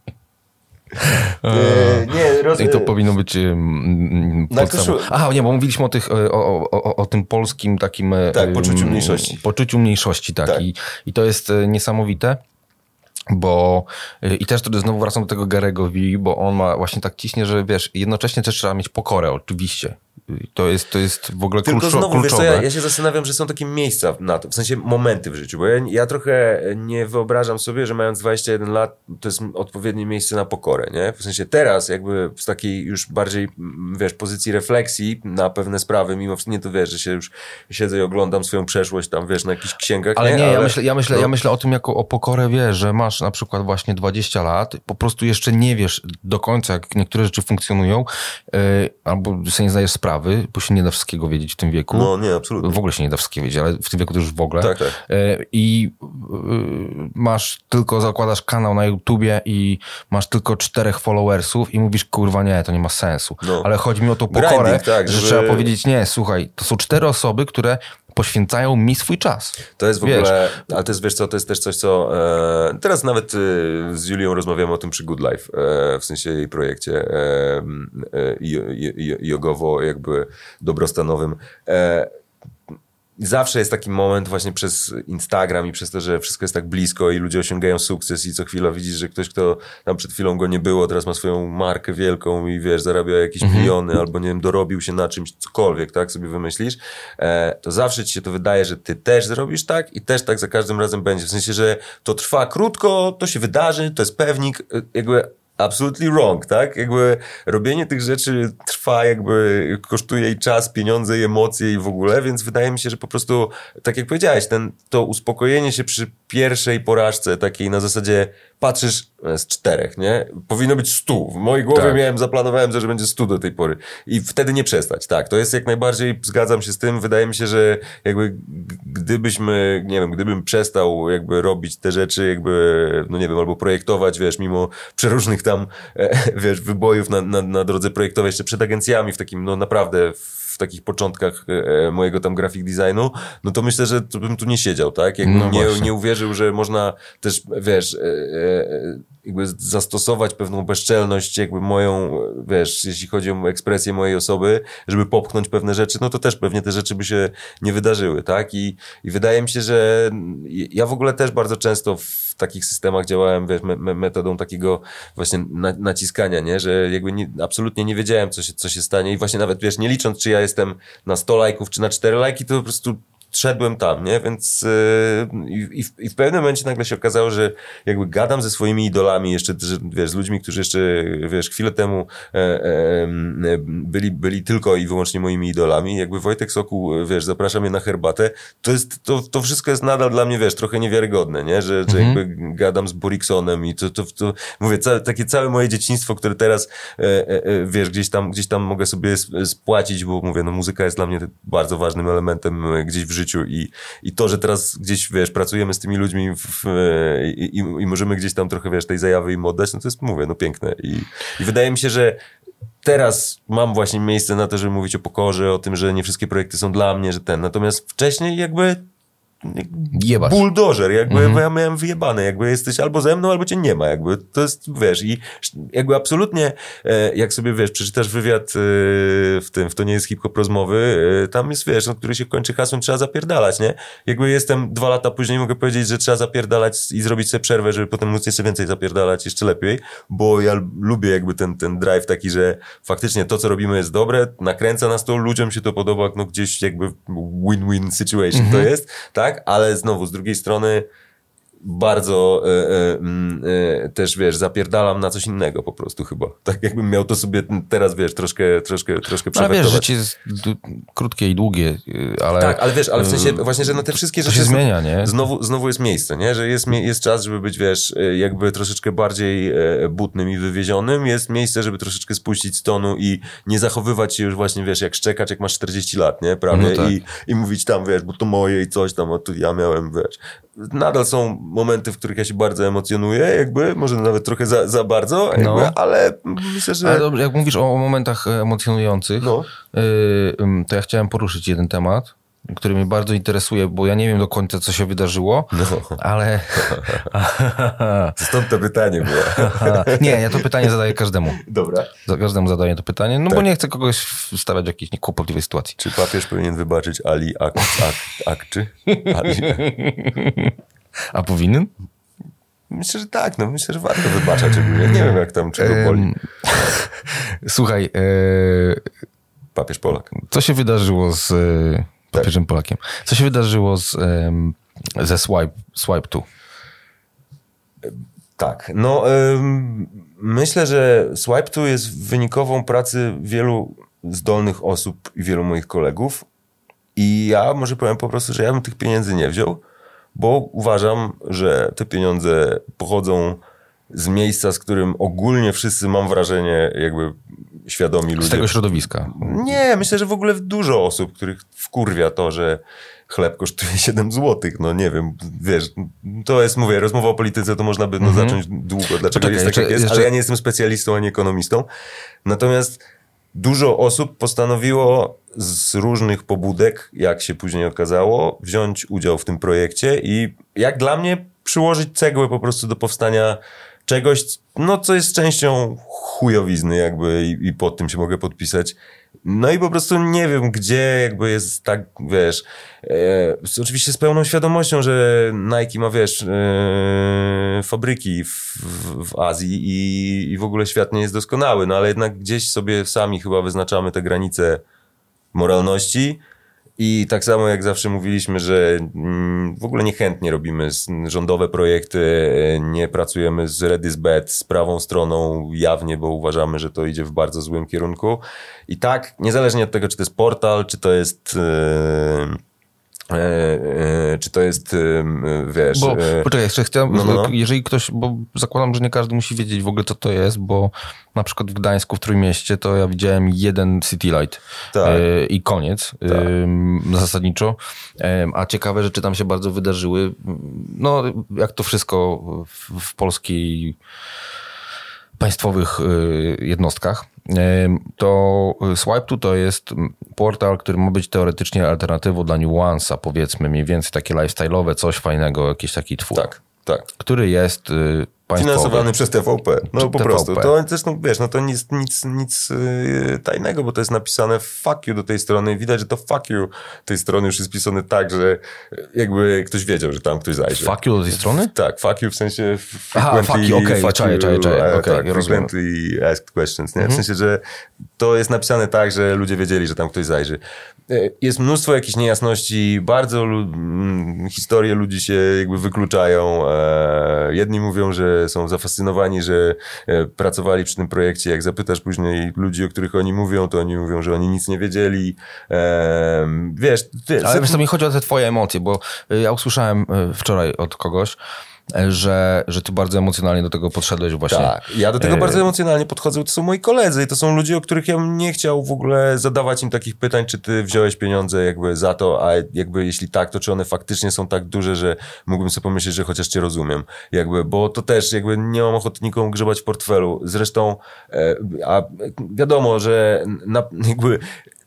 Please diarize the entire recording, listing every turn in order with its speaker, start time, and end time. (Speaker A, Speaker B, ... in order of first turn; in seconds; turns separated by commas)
Speaker A: 1.0-12.4, Speaker B: 1.4-2.9, Speaker B: 4.5-5.1, Speaker B: 8.3-9.4, Speaker A: 13.3-22.7, Speaker B: 21.6-41.3, Speaker A: 40.1-70.3, Speaker B: 51.9-52.8, Speaker B: 54.6-55.0, Speaker B: 63.4-63.7, Speaker B: 64.3-65.7, Speaker B: 69.8-82.1, Speaker B: 83.2-212.2, Speaker A: 93.4-93.7, Speaker A: 121.7-122.0, Speaker A: 145.2-145.9, Speaker A: 191.9-192.2, Speaker B: 212.8-218.8, Speaker B: 219.4-250.8, Speaker A: 219.9-220.4, Speaker A: 221.1-221.4, Speaker A: 248.3-248.7, Speaker B: 251.6-259.9, Speaker A: 259.3-265.1, Speaker B: 262.4-287.1, Speaker A: 276.5-276.9, Speaker A: 285.3-285.8, Speaker A: 286.8-298.1, Speaker B: 289.2-289.5, Speaker B: 295.5-296.0, Speaker B: 296.5-297.1, Speaker B: 298.1-300.7, Speaker A: 299.2-301.4, Speaker B: 301.3-301.9, Speaker A: 302.0-305.8, Speaker B: 305.8-309.6, Speaker A: 308.9-310.6, Speaker A: 311.1-311.7, Speaker B: 312.7-316.1, Speaker A: 315.6-318.9, Speaker B: 319.5-320.1, Speaker A: 320.1-326.2, Speaker B: 327.8-336.2, Speaker B: 336.9-339.6, Speaker B: 340.1-343.4, Speaker B: 343.9-361.6, Speaker A: 348.2-349.4, Speaker A: 358.0-358.4, Speaker A: 359.1-360.1, Speaker B: 362.2-362.8, Speaker B: 363.3-394.6, Speaker B: 395.3-396.2, Speaker B: 396.8-412.4, Speaker B: 413.1-416.3, Speaker A: 415.7-433.8, Speaker B: 416.9-417.3, Speaker B: 424.7-425.0, Speaker A: 435.2-446.2, Speaker B: 446.1-446.9, Speaker A: 447.0-448.9, Speaker B: 448.3-460.8, Speaker A: 449.7-450.5, Speaker A: 460.5-461.5, Speaker B: 461.5-467.4, Speaker A: 462.9-465.5, Speaker B: 468.0-487.6, Speaker A: 487.2-491.2, Speaker A: 491.7-495.4, Speaker B: 494.3-514.2